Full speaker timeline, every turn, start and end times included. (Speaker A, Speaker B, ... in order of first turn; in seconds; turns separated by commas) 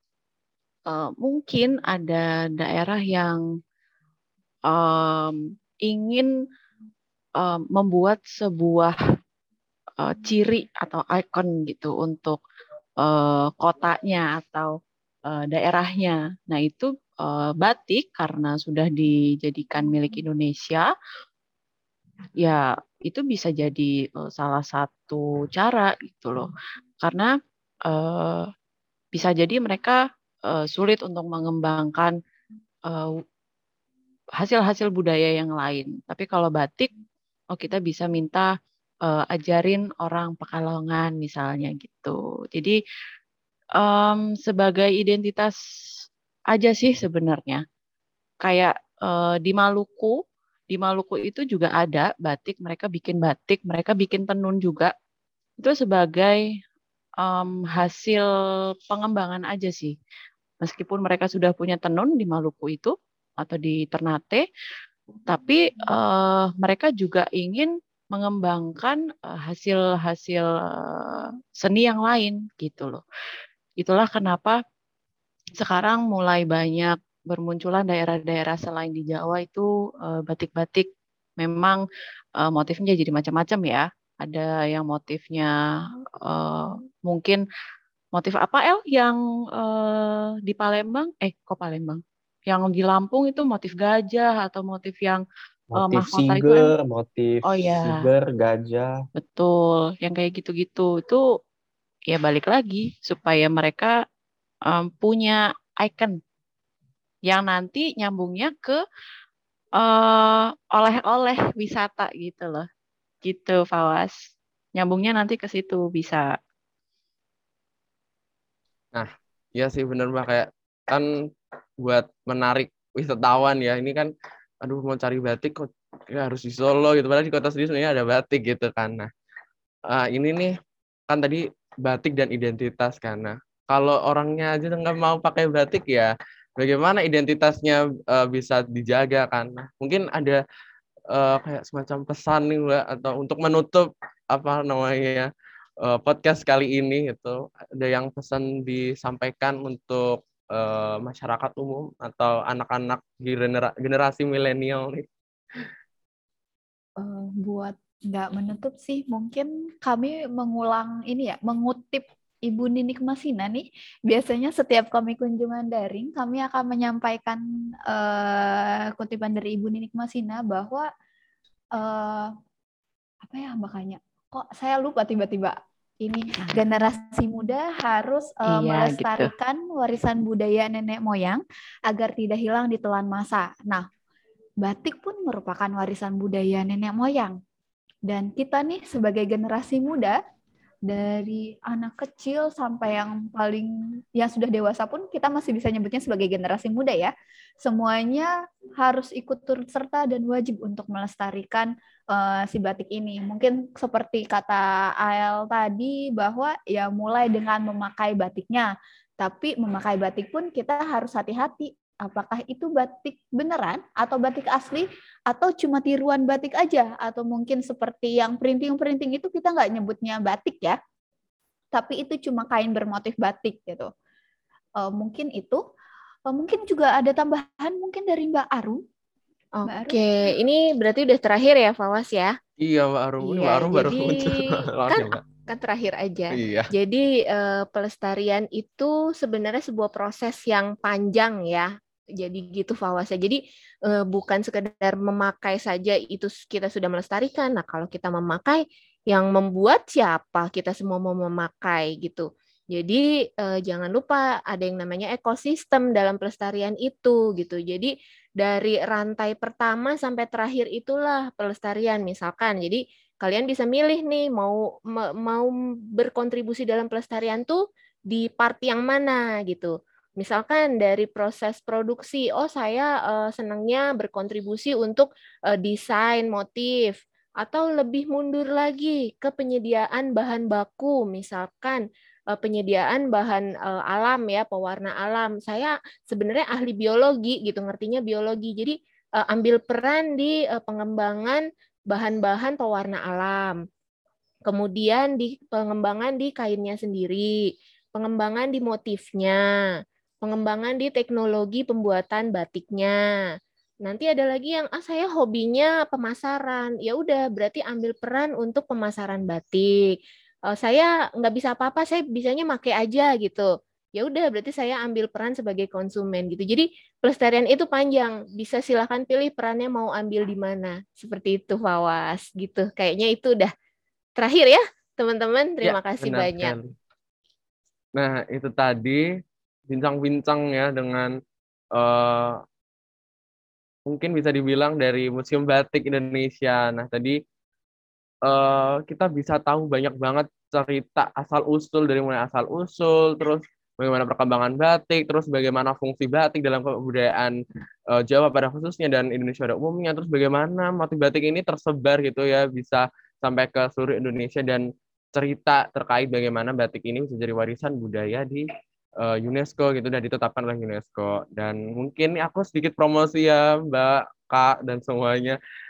Speaker A: 0.9-3.4, Speaker A: 4.7-6.3, Speaker A: 7.4-9.0, Speaker A: 10.0-12.4, Speaker A: 13.0-14.7, Speaker A: 15.3-20.9, Speaker A: 22.4-26.5, Speaker A: 27.0-27.3, Speaker A: 27.9-28.5, Speaker A: 29.1-30.0, Speaker A: 30.5-32.1, Speaker A: 34.4-36.9, Speaker A: 37.5-38.5, Speaker A: 39.1-42.8, Speaker A: 43.8-45.5, Speaker A: 46.5-47.6, Speaker A: 48.4-50.2, Speaker A: 50.7-54.9, Speaker A: 55.6-56.4, Speaker A: 57.2-58.3, Speaker A: 58.9-60.0, Speaker A: 60.6-64.5, Speaker A: 65.3-73.0, Speaker A: 73.8-74.6, Speaker A: 75.6-80.9, Speaker A: 81.4-81.8, Speaker A: 82.4-85.5, Speaker A: 86.2-87.4, Speaker A: 88.1-95.2, Speaker B: 95.7-99.0, Speaker A: 95.8-96.7, Speaker A: 97.5-98.1, Speaker A: 99.2-101.2, Speaker A: 102.1-103.9, Speaker A: 104.7-106.2, Speaker A: 107.3-108.8, Speaker A: 109.8-112.7, Speaker A: 113.2-116.3, Speaker C: 118.9-121.1, Speaker C: 121.8-124.1, Speaker C: 124.6-129.1, Speaker C: 129.9-130.6, Speaker C: 131.1-140.4, Speaker C: 141.1-145.3, Speaker C: 145.8-155.1, Speaker D: 157.0-170.9, Speaker D: 171.8-172.3, Speaker D: 173.2-183.9, Speaker A: 178.5-179.3, Speaker D: 184.6-187.4, Speaker D: 188.1-190.2, Speaker D: 190.9-220.8, Speaker D: 221.7-223.9, Speaker D: 224.8-225.6, Speaker D: 226.3-228.8, Speaker E: 229.6-232.3, Speaker D: 229.7-230.0, Speaker C: 232.6-235.2, Speaker E: 233.2-234.4, Speaker E: 234.9-293.6, Speaker C: 236.3-236.7, Speaker E: 294.5-297.3, Speaker E: 297.9-299.7, Speaker E: 300.2-303.0, Speaker E: 303.8-309.9, Speaker E: 310.5-323.5, Speaker E: 324.2-326.6, Speaker C: 325.6-326.7, Speaker C: 328.0-329.0, Speaker C: 329.7-331.1, Speaker C: 331.7-332.4, Speaker C: 333.9-337.2, Speaker C: 338.2-347.3, Speaker C: 347.9-358.5, Speaker C: 359.0-365.4